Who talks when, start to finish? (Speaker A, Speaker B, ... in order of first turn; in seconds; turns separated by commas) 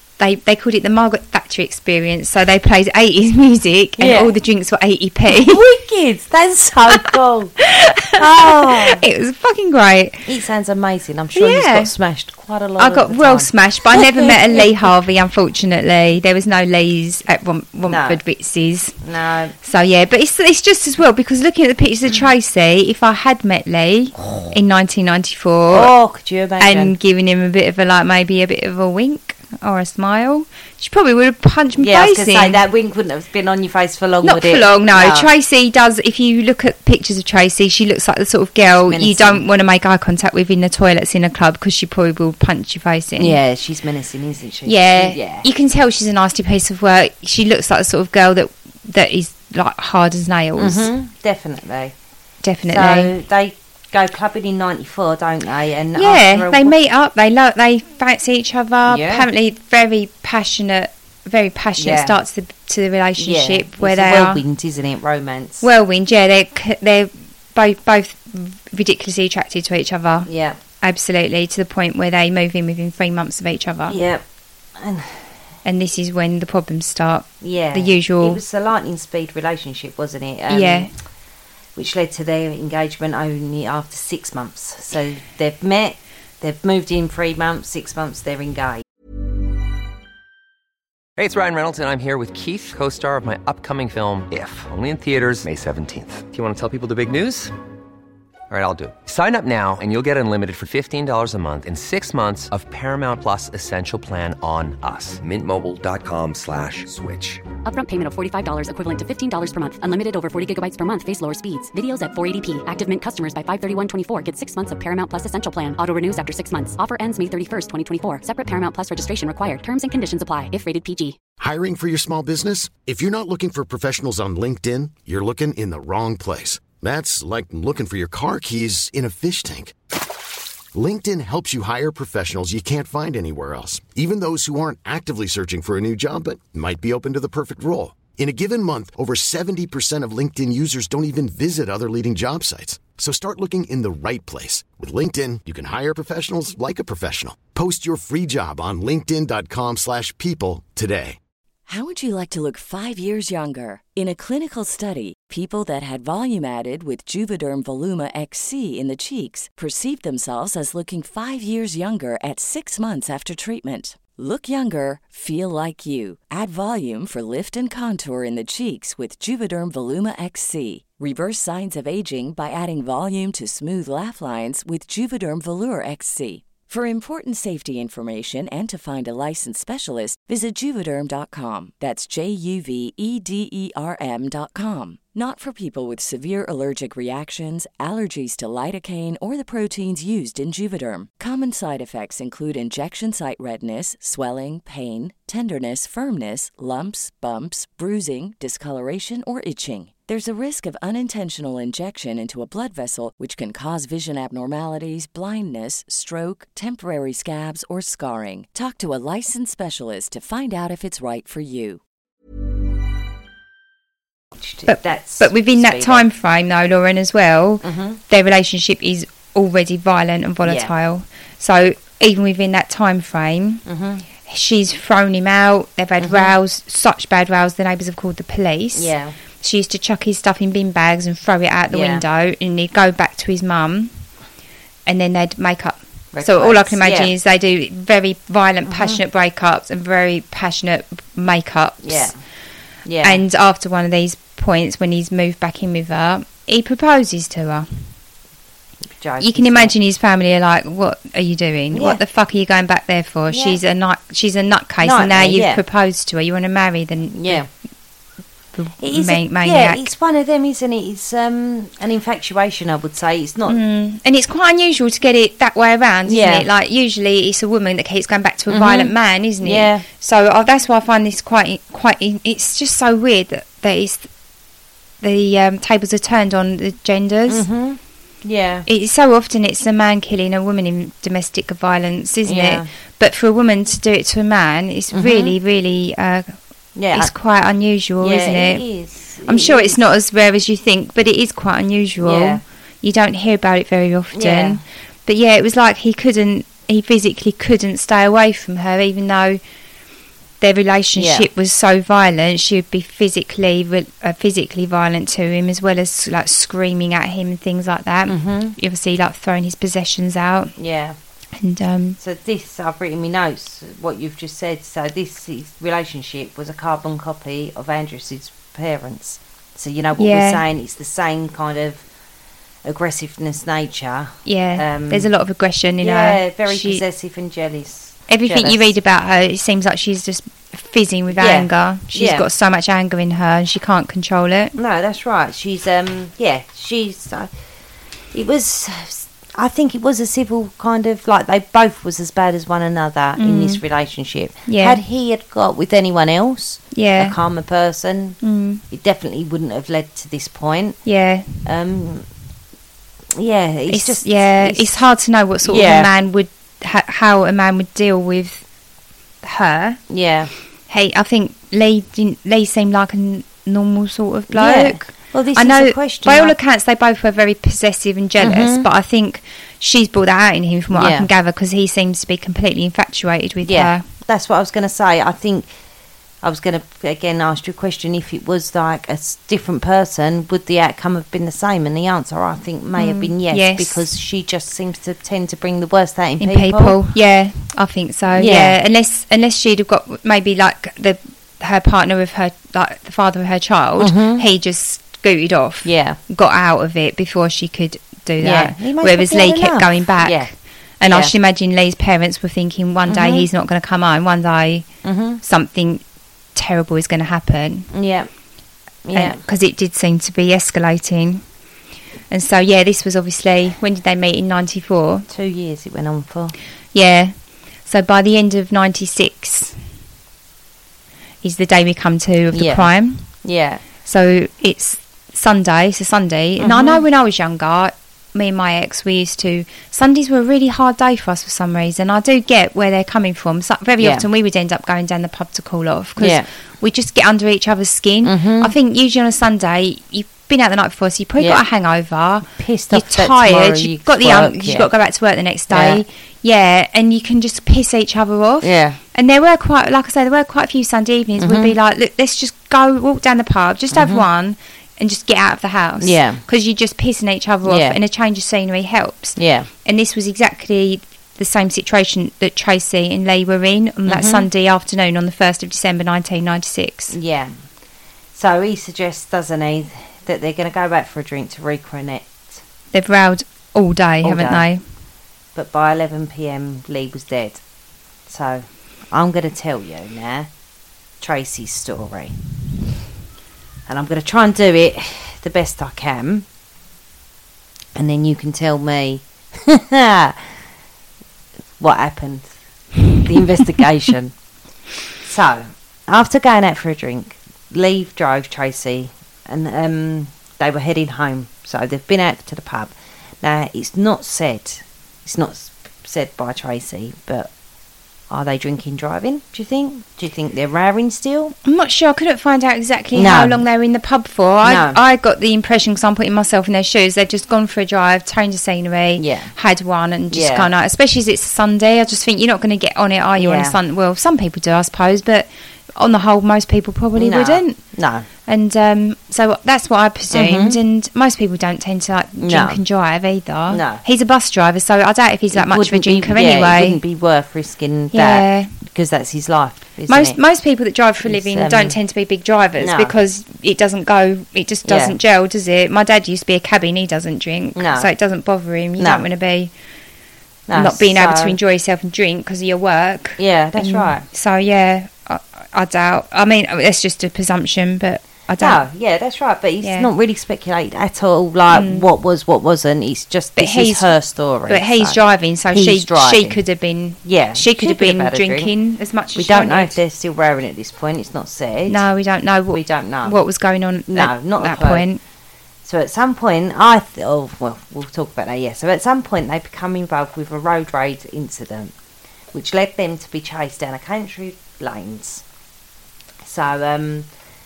Speaker A: 0.2-5.6, Speaker B: 4.0-4.4, Speaker B: 5.3-7.6, Speaker A: 7.6-10.2, Speaker B: 8.2-9.0, Speaker B: 10.3-14.7, Speaker A: 11.3-11.9, Speaker A: 12.8-19.0, Speaker B: 17.9-18.2, Speaker B: 19.0-19.6, Speaker A: 19.6-25.9, Speaker B: 24.2-24.5, Speaker B: 25.7-26.9, Speaker A: 26.6-32.6, Speaker B: 31.8-35.3, Speaker A: 34.2-43.4, Speaker B: 38.7-39.5, Speaker B: 43.2-45.5, Speaker A: 44.7-50.9, Speaker B: 50.6-52.0, Speaker A: 52.4-53.1, Speaker B: 52.7-56.8, Speaker A: 56.0-64.4, Speaker B: 58.9-59.3, Speaker B: 61.8-62.2, Speaker B: 63.2-65.7, Speaker A: 65.6-70.3, Speaker B: 70.3-70.6, Speaker A: 70.8-74.0, Speaker B: 73.9-74.2, Speaker B: 74.8-75.3, Speaker A: 75.6-78.4, Speaker B: 77.4-80.9, Speaker A: 80.5-80.9, Speaker B: 81.8-88.8, Speaker C: 91.2-97.5, Speaker C: 98.5-107.5, Speaker D: 107.6-121.2, Speaker E: 121.4-129.7, Speaker E: 130.7-151.2, Speaker F: 151.7-211.8, Speaker B: 214.4-216.1, Speaker A: 214.7-223.6, Speaker B: 217.6-218.0, Speaker B: 220.4-220.7, Speaker B: 223.7-224.1, Speaker A: 224.2-233.9, Speaker B: 226.0-226.3, Speaker B: 228.8-229.2, Speaker B: 231.7-232.0, Speaker A: 234.9-242.1, Speaker B: 236.1-237.1, Speaker B: 238.7-239.0, Speaker B: 241.8-242.2, Speaker B: 242.8-243.2, Speaker A: 243.0-247.7, Speaker B: 248.8-249.8, Speaker A: 249.2-257.4, Speaker B: 251.7-252.0, Speaker B: 253.3-253.6, Speaker B: 254.8-255.6, Speaker B: 257.1-257.5, Speaker A: 258.6-259.9, Speaker B: 258.8-263.6, Speaker A: 263.5-274.1, Speaker B: 266.1-266.5, Speaker B: 268.5-269.9, Speaker A: 275.0-277.5, Speaker B: 277.3-278.7, Speaker A: 278.7-286.3, Speaker B: 282.2-282.7, Speaker B: 284.9-285.4, Speaker B: 286.8-287.1, Speaker A: 286.9-288.6, Speaker B: 288.0-289.9, Speaker A: 289.2-299.4, Speaker B: 292.0-292.4, Speaker B: 294.1-294.6, Speaker A: 300.4-310.5, Speaker B: 301.0-301.3, Speaker B: 308.1-308.6, Speaker B: 310.6-311.0, Speaker A: 311.4-312.0, Speaker B: 312.0-321.9, Speaker A: 320.0-320.4, Speaker B: 322.6-325.1, Speaker A: 324.2-326.8, Speaker B: 325.8-328.8, Speaker A: 328.1-334.6, Speaker B: 331.1-332.3, Speaker B: 334.6-337.3, Speaker B: 338.1-350.8, Speaker A: 343.2-343.6, Speaker A: 344.5-344.8, Speaker A: 346.7-347.2, Speaker A: 348.2-348.6, Speaker A: 350.9-351.4, Speaker B: 351.4-352.1, Speaker B: 353.1-354.8, Speaker A: 353.7-358.4, Speaker B: 355.4-355.9, Speaker A: 359.2-359.8, Speaker B: 359.9-360.3, Speaker A: 360.7-373.8, Speaker B: 364.3-366.4, Speaker B: 368.2-368.7, Speaker B: 370.7-371.1, Speaker B: 373.4-375.5, Speaker B: 376.2-386.8, Speaker A: 382.8-383.9, Speaker A: 386.2-404.7, Speaker B: 388.1-388.6, Speaker B: 393.8-394.2, Speaker B: 395.6-396.0, Speaker B: 398.2-400.3, Speaker B: 400.8-401.1, Speaker B: 402.9-403.3, Speaker B: 404.8-405.2, Speaker A: 405.2-405.8, Speaker A: 406.4-407.7, Speaker B: 407.7-408.1, Speaker B: 408.9-409.2, Speaker A: 408.9-411.2, Speaker A: 412.1-415.1, Speaker B: 415.1-416.4, Speaker A: 416.7-417.1, Speaker A: 417.6-419.6, Speaker A: 421.2-423.1, Speaker B: 422.3-423.6, Speaker A: 423.9-467.0, Speaker B: 426.4-426.8, Speaker B: 433.8-434.1, Speaker B: 436.0-436.3, Speaker B: 438.0-438.5, Speaker B: 442.3-444.7, Speaker B: 445.5-445.8, Speaker B: 448.4-448.8, Speaker B: 451.2-451.6, Speaker B: 453.7-454.1, Speaker B: 455.8-456.2, Speaker B: 457.4-457.8, Speaker B: 459.2-459.5, Speaker B: 463.9-464.3, Speaker B: 466.9-467.3, Speaker B: 468.1-472.4, Speaker A: 472.7-474.6, Speaker B: 474.0-474.5, Speaker B: 475.4-477.4, Speaker B: 478.1-480.3, Speaker B: 481.0-482.1, Speaker B: 483.7-486.3, Speaker B: 487.8-490.3, Speaker B: 491.6-492.3, Speaker B: 493.0-494.1, Speaker B: 495.0-507.3, Speaker B: 508.1-511.3, Speaker A: 511.4-527.6, Speaker B: 512.9-513.4, Speaker B: 514.4-514.8, Speaker B: 519.0-519.3, Speaker B: 520.1-520.5, Speaker B: 523.2-523.6, Speaker B: 527.0-528.1, Speaker A: 528.3-536.8, Speaker B: 530.1-530.6, Speaker B: 532.2-532.6, Speaker B: 533.5-533.8, Speaker B: 535.3-540.2, Speaker A: 537.9-538.5, Speaker A: 539.9-549.5, Speaker B: 541.0-541.8, Speaker B: 542.6-543.0, Speaker B: 544.6-545.0, Speaker B: 547.5-547.9, Speaker B: 548.8-549.1, Speaker B: 550.5-551.4, Speaker A: 550.5-558.6, Speaker B: 553.2-554.0, Speaker B: 558.4-566.4, Speaker A: 559.6-559.9, Speaker A: 561.5-561.9, Speaker A: 563.4-563.9, Speaker A: 564.5-569.8, Speaker B: 567.0-568.5, Speaker B: 569.1-571.9, Speaker A: 571.7-575.0, Speaker B: 572.5-573.2, Speaker B: 573.9-574.9, Speaker B: 575.6-581.7, Speaker B: 582.3-585.2, Speaker B: 586.2-587.1